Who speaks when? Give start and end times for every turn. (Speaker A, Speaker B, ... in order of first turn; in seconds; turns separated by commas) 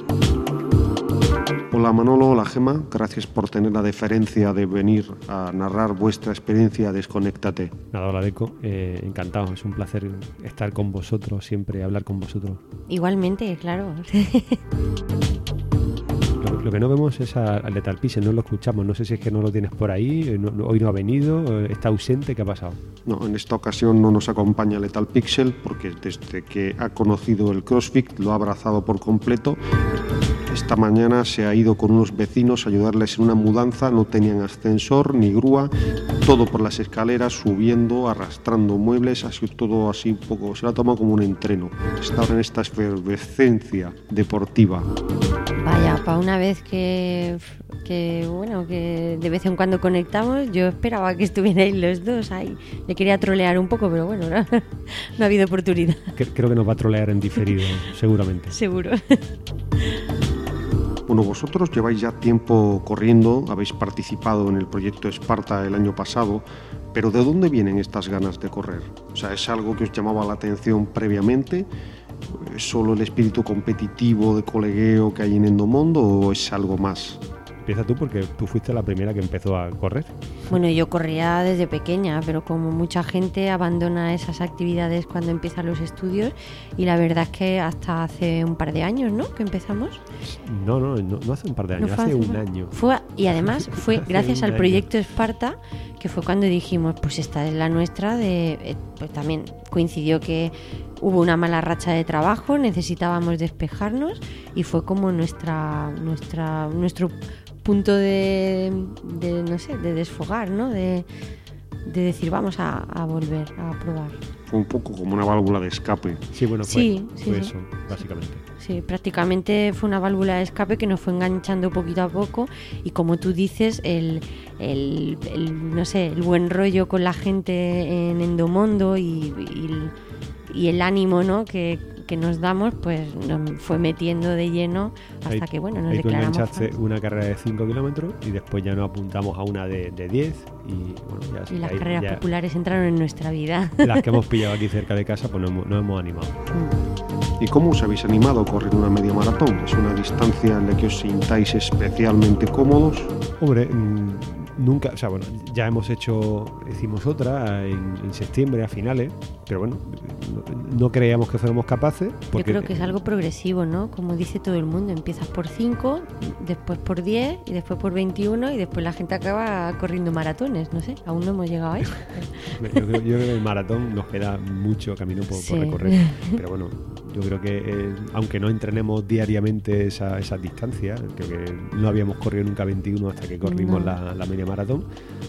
Speaker A: 1.7-7.8, Speaker B: 7.8-12.6, Speaker C: 12.9-14.6, Speaker B: 16.4-22.8, Speaker A: 23.0-29.6, Speaker A: 30.5-35.7, Speaker A: 36.2-44.9, Speaker C: 45.6-56.1, Speaker B: 56.2-58.5, Speaker C: 58.5-59.2, Speaker A: 61.1-71.7, Speaker A: 72.3-77.2, Speaker B: 77.6-80.1, Speaker C: 80.5-90.0, Speaker B: 90.2-92.8, Speaker C: 91.8-111.1, Speaker B: 93.3-94.9, Speaker C: 111.8-114.2, Speaker A: 114.5-116.2, Speaker B: 116.3-118.4, Speaker C: 116.6-118.0, Speaker C: 118.6-129.9, Speaker C: 130.5-136.7, Speaker B: 135.3-142.2, Speaker C: 141.5-144.4, Speaker B: 143.8-146.3, Speaker C: 146.5-146.8, Speaker A: 147.4-153.1, Speaker B: 153.4-163.0, Speaker C: 162.3-172.9, Speaker B: 172.4-184.8, Speaker C: 175.3-176.4, Speaker C: 183.4-184.0